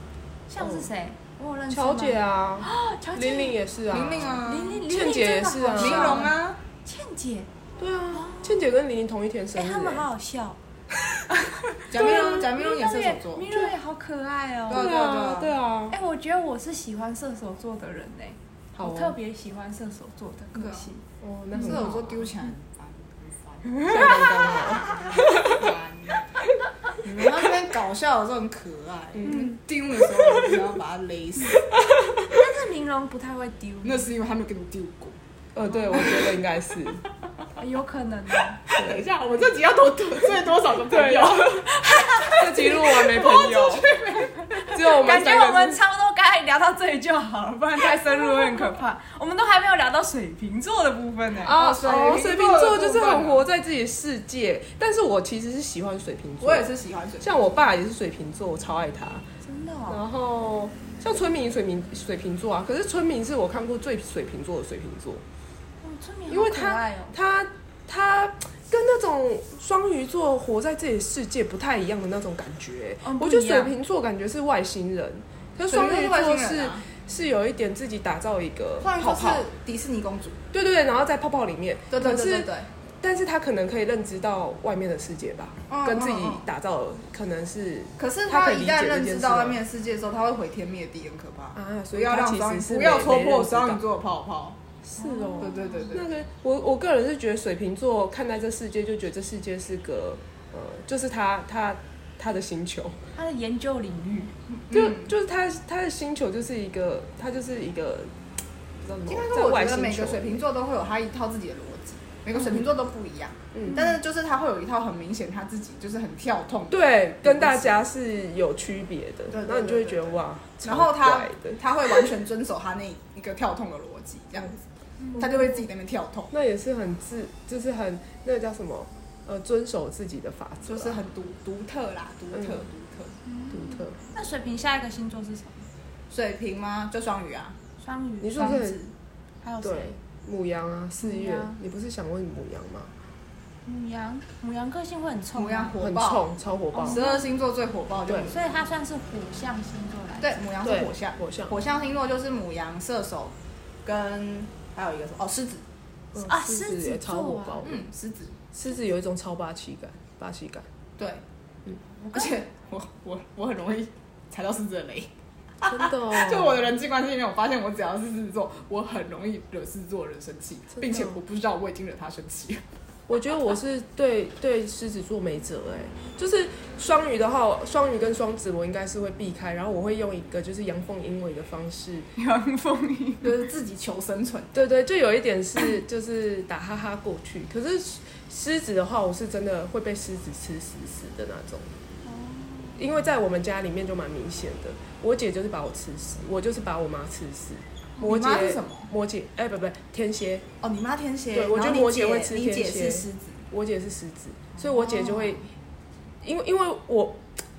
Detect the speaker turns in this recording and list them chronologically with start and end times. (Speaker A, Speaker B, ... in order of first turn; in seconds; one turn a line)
Speaker A: 0.5-3.6
Speaker B: 0.6-0.9
Speaker B: 1.7-6.3
Speaker C: 3.9-4.8
Speaker A: 4.4-7.5
Speaker C: 5.8-6.6
Speaker B: 7.8-10.1
Speaker A: 8.1-8.6
Speaker A: 9.6-10.6
Speaker A: 11.3-14.9
Speaker C: 11.9-13.5
Speaker B: 12.0-12.4
Speaker C: 14.7-15.6
Speaker B: 14.7-16.0
Speaker A: 15.9-21.0
Speaker B: 18.7-19.1
Speaker C: 20.6-20.9
Speaker B: 21.2-22.2
Speaker C: 21.5-26.3
Speaker A: 21.6-22.1
Speaker A: 23.6-25.2
Speaker B: 23.9-25.7
Speaker C: 27.0-31.7
Speaker B: 27.1-27.5
Speaker B: 29.1-29.4
Speaker A: 29.2-29.6
Speaker B: 32.0-32.4
Speaker A: 32.3-34.1
Speaker C: 33.8-35.1
Speaker B: 35.5-37.0
Speaker A: 35.7-36.1
Speaker C: 35.9-36.3
Speaker A: 37.6-38.6
Speaker C: 38.6-44.8
Speaker B: 38.7-39.0
Speaker B: 40.9-41.6
Speaker A: 41.7-42.7
Speaker B: 42.3-43.9
Speaker B: 44.7-45.8
Speaker A: 44.8-51.6
Speaker C: 51.4-53.5
Speaker B: 51.4-56.7
Speaker C: 56.4-57.4
Speaker B: 57.2-59.2
Speaker A: 59.4-60.0
Speaker B: 59.9-65.2
Speaker A: 65.8-67.2
Speaker B: 66.3-79.5
Speaker A: 73.0-73.7
Speaker C: 75.7-76.9
Speaker C: 78.8-80.4
Speaker B: 80.5-82.5
Speaker C: 81.9-82.7
Speaker B: 83.0-89.6
Speaker C: 85.7-86.5
Speaker C: 88.0-94.6
Speaker B: 91.5-93.8
Speaker B: 94.9-103.0
Speaker A: 95.0-96.0
Speaker C: 95.4-96.1
Speaker A: 103.2-104.3
Speaker C: 104.5-105.1
Speaker B: 104.7-108.1
Speaker B: 108.8-110.4
Speaker C: 109.1-117.8
Speaker B: 113.5-113.8
Speaker A: 113.7-113.9
Speaker B: 116.7-122.1
Speaker C: 119.3-124.6
Speaker A: 125.0-125.3
Speaker B: 125.2-125.6
Speaker C: 125.2-126.3
Speaker B: 126.3-131.0
Speaker C: 130.7-133.2
Speaker B: 132.3-132.7
Speaker A: 133.2-135.7
Speaker B: 133.5-134.0
Speaker C: 136.1-137.6
Speaker A: 137.8-138.8
Speaker B: 138.2-138.8
Speaker C: 138.4-138.9
Speaker A: 139.4-140.0
Speaker B: 139.6-142.9
Speaker A: 141.0-141.6
Speaker A: 143.6-145.7
Speaker C: 145.3-146.3
Speaker B: 145.8-147.0
Speaker A: 146.7-147.3
Speaker C: 146.9-148.5
Speaker A: 148.2-150.4
Speaker C: 150.2-153.3
Speaker B: 150.6-151.6
Speaker C: 153.8-155.6
Speaker B: 156.1-157.8
Speaker A: 156.2-157.7
Speaker C: 157.6-158.4
Speaker B: 158.5-160.7
Speaker A: 162.0-162.3
Speaker C: 162.1-172.6
Speaker B: 165.6-166.7
Speaker B: 170.8-171.2
Speaker B: 173.1-182.1
Speaker A: 182.2-183.3
Speaker C: 183.2-184.6
Speaker B: 184.5-191.7
Speaker A: 192.1-192.8
Speaker B: 192.8-200.4
Speaker C: 198.0-198.9
Speaker C: 200.6-203.4
Speaker B: 201.3-205.4
Speaker C: 204.6-205.4
Speaker B: 206.2-207.2